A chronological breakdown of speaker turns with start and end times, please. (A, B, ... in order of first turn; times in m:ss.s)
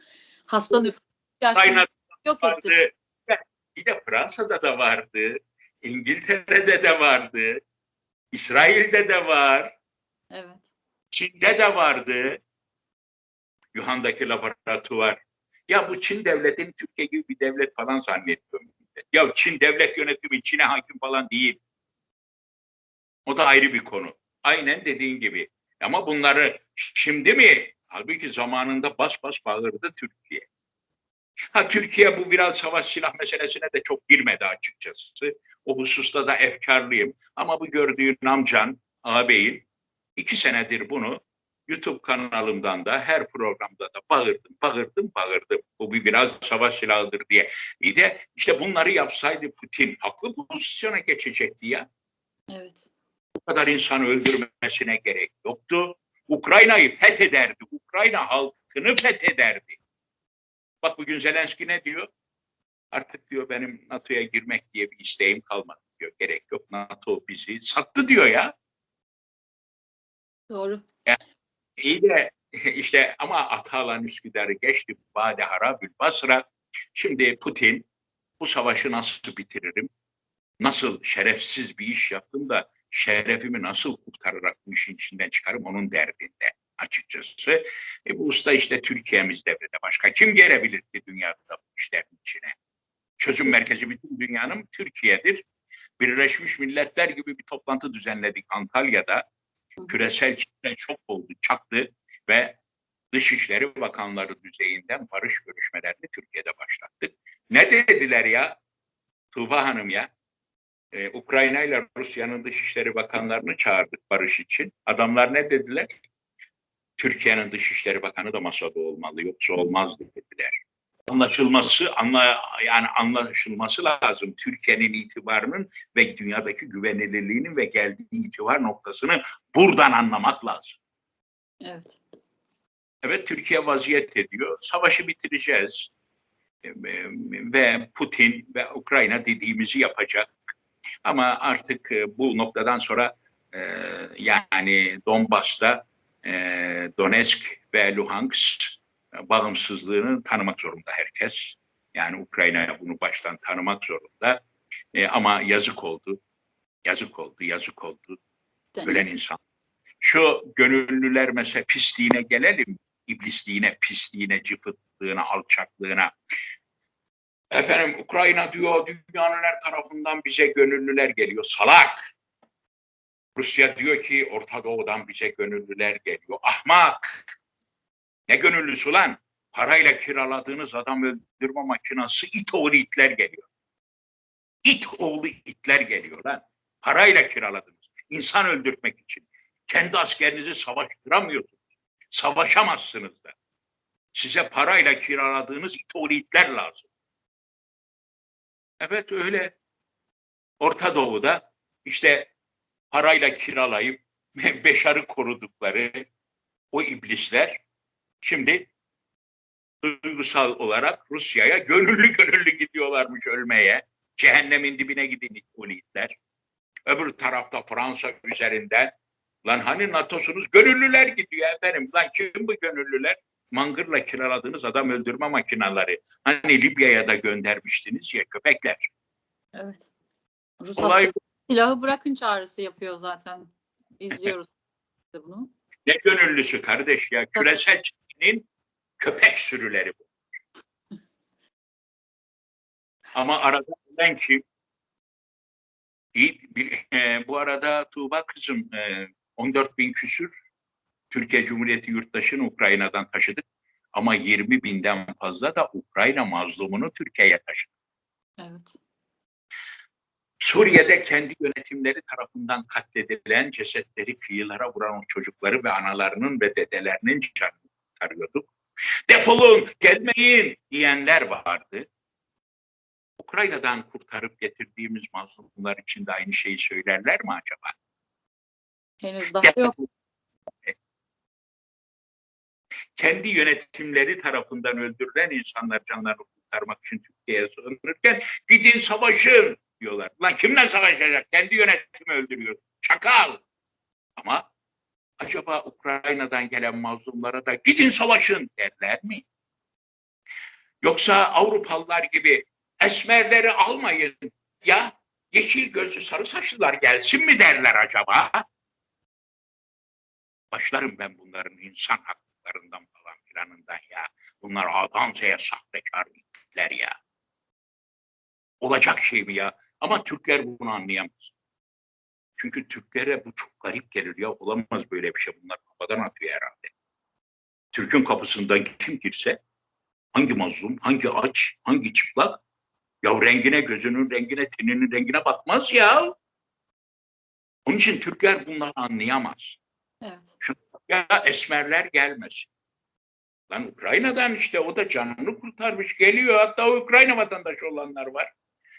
0:00.5-0:02.7 A
0:01.5-0:07.6 B
0:08.3-0:09.7 B
0:10.3-0:10.6 A
0:11.1-0:12.4 B
0:13.7-0:21.6 B
0:23.3-0:30.5 B
0:31.5-0:39.6 B
0:40.2-0:51.8 B
0:52.5-0:52.9 A
0:53.4-0:59.8 B
1:00.8-1:02.1 B
1:02.9-1:08.5 B
1:10.5-1:10.8 A
1:11.8-1:17.8 B
1:18.4-1:19.9 B
1:20.6-1:32.6 B
1:33.2-1:35.4 B
1:36.0-1:39.2 B
1:39.9-1:42.6 B
1:43.1-1:48.6 B
1:49.3-1:50.1 B
1:50.9-1:55.9 B
1:57.0-2:10.8 B
2:11.6-2:12.0 A
2:13.0-2:15.9 B
2:16.6-2:20.3 B
2:21.0-2:36.2 B
2:36.8-2:38.2 B
2:38.7-2:39.1 A
2:38.8-2:39.4 B
2:40.0-2:46.1 B
2:47.5-2:52.1 B
2:53.4-2:57.2 B
2:58.3-3:03.5 B
3:04.6-3:11.5 B
3:12.1-3:13.3 B
3:14.1-3:16.9 B
3:18.8-3:19.5 B
3:20.6-3:22.3 B
3:22.9-3:26.1 B
3:26.7-3:27.6 B
3:28.2-3:28.7 B
3:29.8-3:36.1 B
3:36.9-3:38.9 B
3:39.4-3:48.9 B
3:49.6-3:49.9 A
3:50.6-3:54.5 A
3:50.8-3:51.1 B
3:55.1-3:55.5 A
3:55.8-3:58.5 B
3:59.0-4:00.0 B
4:03.1-4:04.4 B
4:06.1-4:10.3 B
4:11.1-4:13.4 B
4:13.9-4:17.7 B
4:18.4-4:18.8 A
4:20.4-4:28.5 B
4:29.1-4:31.9 B
4:33.2-4:37.7 B
4:39.0-4:39.7 A
4:39.4-4:39.9 B
4:43.0-4:53.4 B
4:54.2-4:54.5 B
4:55.2-4:59.2 B
5:00.8-5:08.4 B
5:10.5-5:16.9 B
5:18.6-5:21.3 B
5:22.4-5:26.7 B
5:27.7-5:29.4 B
5:30.1-5:32.4 B
5:33.0-5:36.1 B
5:37.6-5:39.6 B
5:40.0-5:40.3 A
5:40.4-5:42.5 B
5:43.5-5:48.3 B